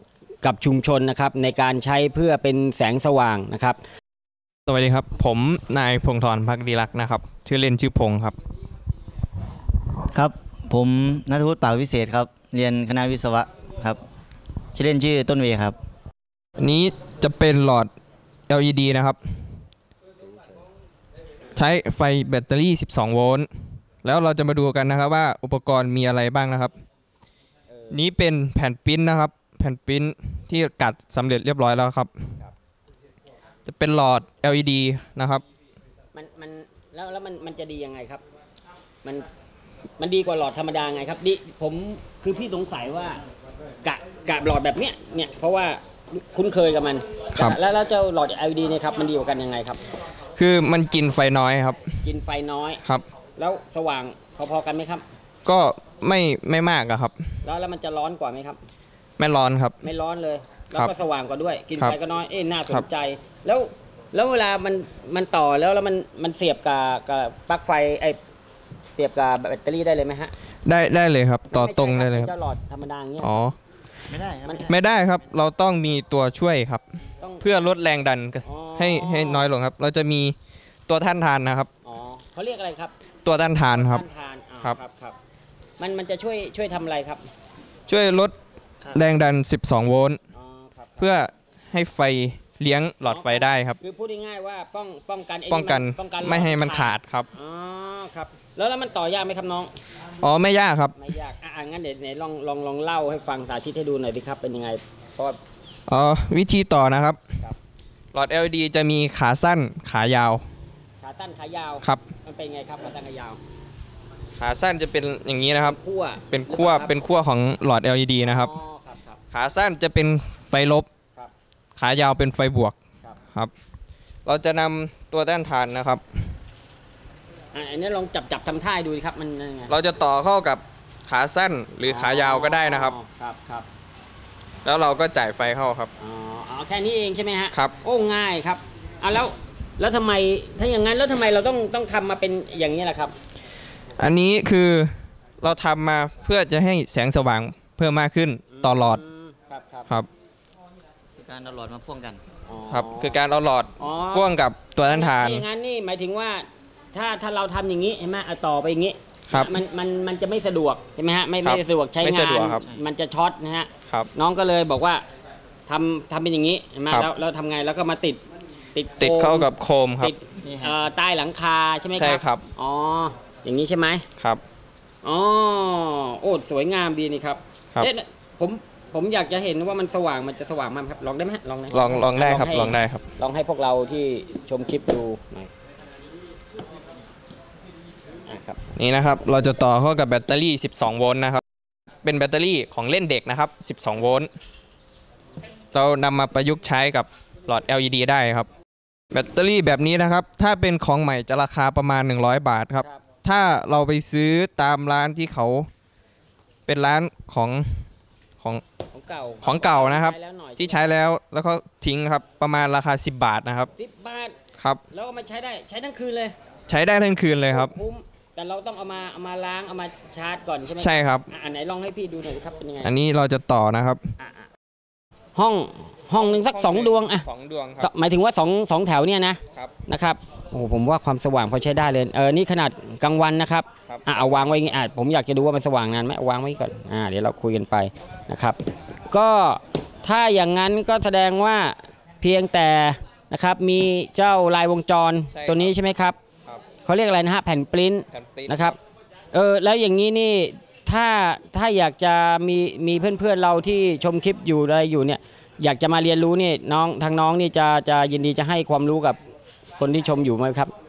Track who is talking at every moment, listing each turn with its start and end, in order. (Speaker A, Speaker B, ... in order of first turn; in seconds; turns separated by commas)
Speaker A: 0.4-3.8, Speaker B: 4.7-8.4, Speaker C: 10.1-14.0, Speaker C: 14.7-15.8, Speaker B: 16.6-17.9, Speaker B: 18.5-19.2, Speaker A: 20.2-20.6, Speaker B: 21.6-23.5, Speaker B: 24.0-26.7, Speaker A: 27.7-28.0, Speaker B: 27.9-32.1, Speaker B: 33.7-35.4, Speaker A: 36.1-38.2, Speaker A: 40.0-43.2, Speaker A: 43.8-49.8, Speaker B: 50.4-51.9, Speaker A: 52.0-52.8, Speaker A: 53.4-55.0, Speaker B: 55.5-57.1, Speaker A: 57.5-58.6, Speaker B: 59.2-59.8, Speaker A: 59.8-68.2, Speaker A: 69.0-70.3, Speaker B: 70.7-72.3, Speaker A: 71.5-73.4, Speaker B: 73.2-73.6, Speaker C: 74.1-74.7, Speaker A: 74.5-74.7, Speaker B: 74.7-76.8, Speaker A: 77.2-77.5, Speaker B: 77.4-80.3, Speaker A: 78.5-79.5, Speaker B: 80.9-81.7, Speaker A: 81.8-82.9, Speaker B: 83.3-84.1, Speaker A: 83.7-85.2, Speaker A: 85.8-87.2, Speaker B: 87.9-88.3, Speaker B: 88.9-90.2, Speaker A: 90.3-91.2, Speaker B: 91.0-93.8, Speaker A: 93.1-99.7, Speaker B: 95.5-97.3, Speaker B: 100.2-101.0, Speaker A: 101.0-105.4, Speaker B: 105.9-107.2, Speaker B: 108.1-110.5, Speaker A: 111.0-113.4, Speaker B: 114.4-115.8, Speaker A: 115.6-117.0, Speaker B: 116.3-118.5, Speaker A: 118.2-119.2, Speaker B: 119.3-120.9, Speaker B: 121.8-122.8, Speaker B: 124.3-126.2, Speaker A: 127.5-129.7, Speaker B: 129.7-133.0, Speaker A: 131.8-133.7, Speaker B: 134.6-135.9, Speaker A: 136.0-143.2, Speaker B: 144.0-149.0, Speaker A: 148.5-149.9, Speaker C: 151.2-152.2, Speaker A: 152.5-153.2, Speaker B: 152.7-155.4, Speaker A: 153.8-154.3, Speaker A: 154.9-165.0, Speaker B: 159.3-159.6, Speaker B: 161.4-162.7, Speaker A: 165.7-168.2, Speaker A: 168.8-169.5, Speaker B: 169.0-170.1, Speaker A: 170.0-174.1, Speaker C: 170.4-170.8, Speaker B: 171.9-172.4, Speaker A: 175.0-185.5, Speaker B: 181.7-183.1, Speaker A: 188.3-188.6, Speaker B: 188.8-191.4, Speaker B: 192.0-194.3, Speaker B: 195.7-198.5, Speaker B: 199.1-205.7, Speaker B: 206.7-207.9, Speaker A: 208.9-210.9, Speaker B: 209.4-213.7, Speaker A: 213.8-214.4, Speaker B: 214.6-214.8, Speaker A: 214.9-216.4, Speaker B: 216.7-217.8, Speaker A: 217.5-222.9, Speaker B: 220.8-221.3, Speaker B: 222.8-224.0, Speaker A: 224.2-224.5, Speaker A: 225.3-227.3, Speaker B: 226.2-227.9, Speaker A: 227.8-246.2, Speaker B: 233.9-234.4, Speaker B: 245.3-245.7, Speaker A: 246.8-248.8, Speaker B: 248.1-248.8, Speaker A: 249.3-259.2, Speaker A: 259.8-260.7